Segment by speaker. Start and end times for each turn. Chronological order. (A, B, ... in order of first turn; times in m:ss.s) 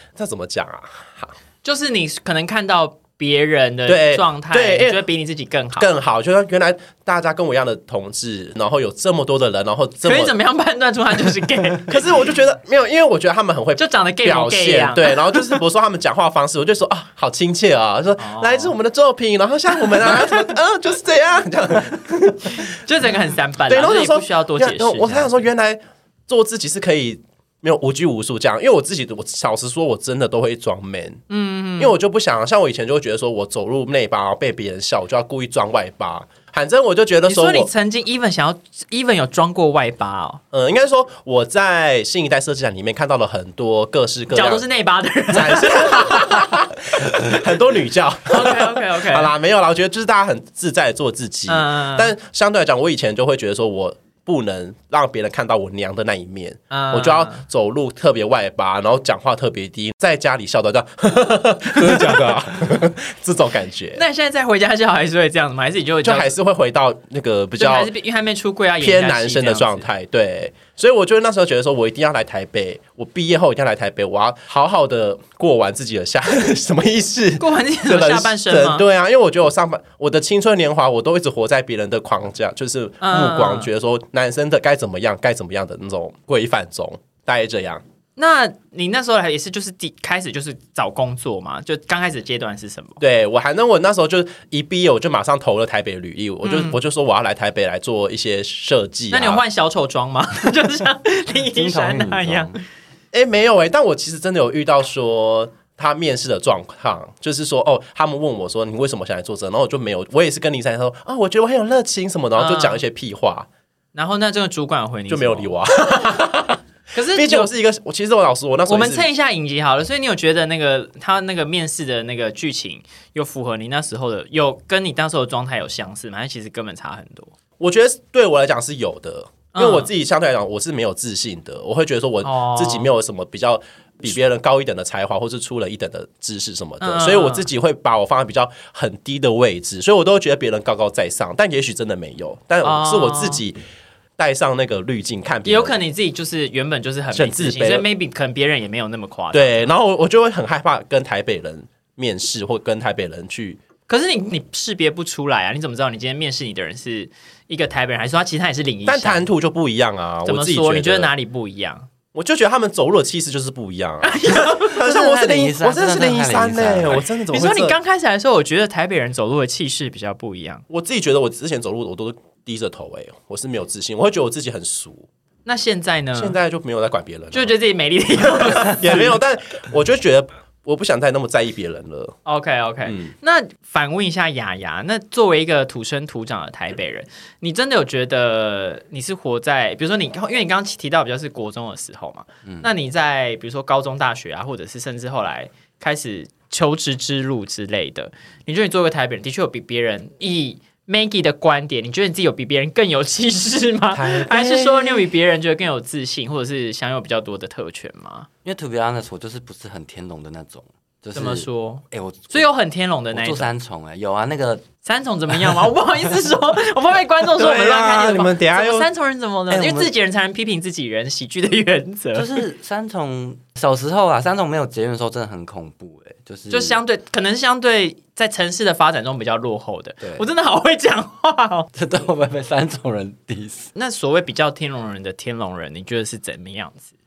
0:00.2-0:01.3 A
0:01.6-0:05.9 B
0:03.9-0:05.0 A
0:05.8-0:10.3 A
0:10.0-0:12.0 B
0:11.9-0:22.7 A
0:13.8-0:15.6 B
0:18.2-0:18.7 B
0:22.6-0:25.3 B
0:23.7-0:31.2 A
0:31.3-0:31.9 B
0:31.8-0:37.7 A
0:37.2-0:40.4 B
0:40.5-0:44.6 A
0:44.3-0:46.4 B
0:45.3-1:04.0 A
0:48.3-0:49.3 B
0:51.5-0:52.1 B
0:56.7-0:57.4 B
1:04.0-1:06.3 B
1:06.0-1:07.9 A
1:07.6-1:09.8 B
1:08.8-1:27.8 A
1:17.4-1:18.8 B
1:23.0-1:23.7 B
1:28.2-1:33.0 B
1:33.0-1:39.4 A
1:36.4-1:36.8 B
1:39.1-1:42.6 B
1:41.5-1:42.6 C
1:43.1-1:53.5 A
1:52.4-1:52.8 B
1:53.9-1:55.5 B
1:55.1-1:56.6 A
1:56.9-1:57.5 B
1:57.1-1:59.1 A
1:58.7-2:07.3 B
2:07.6-2:23.6 A
2:09.5-2:09.9 B
2:12.2-2:12.9 B
2:16.8-2:17.5 B
2:22.6-2:23.4 B
2:24.2-2:25.8 A
2:25.4-2:29.7 B
2:27.1-2:27.8 A
2:29.3-2:33.6 A
2:33.9-2:39.3 B
2:38.9-2:41.1 A
2:40.2-2:41.9 B
2:42.1-2:47.8 A
2:44.0-2:44.8 B
2:44.8-2:47.0 C
2:47.3-2:50.6 B
2:50.7-2:55.1 A
2:55.4-2:56.4 B
2:56.2-2:57.6 A
2:57.3-2:59.2 B
2:58.2-3:02.2 A
3:02.2-3:28.3 B
3:02.8-3:03.1 A
3:23.9-3:25.1 A
3:28.4-3:32.4 C
3:31.1-3:33.5 B
3:33.1-3:34.6 C
3:34.8-3:42.4 B
3:37.4-3:38.9 A
3:39.5-3:39.9 C
3:42.1-3:46.8 C
3:46.5-3:51.7 B
3:50.0-3:50.3 C
3:51.7-3:53.7 C
3:53.7-3:56.9 B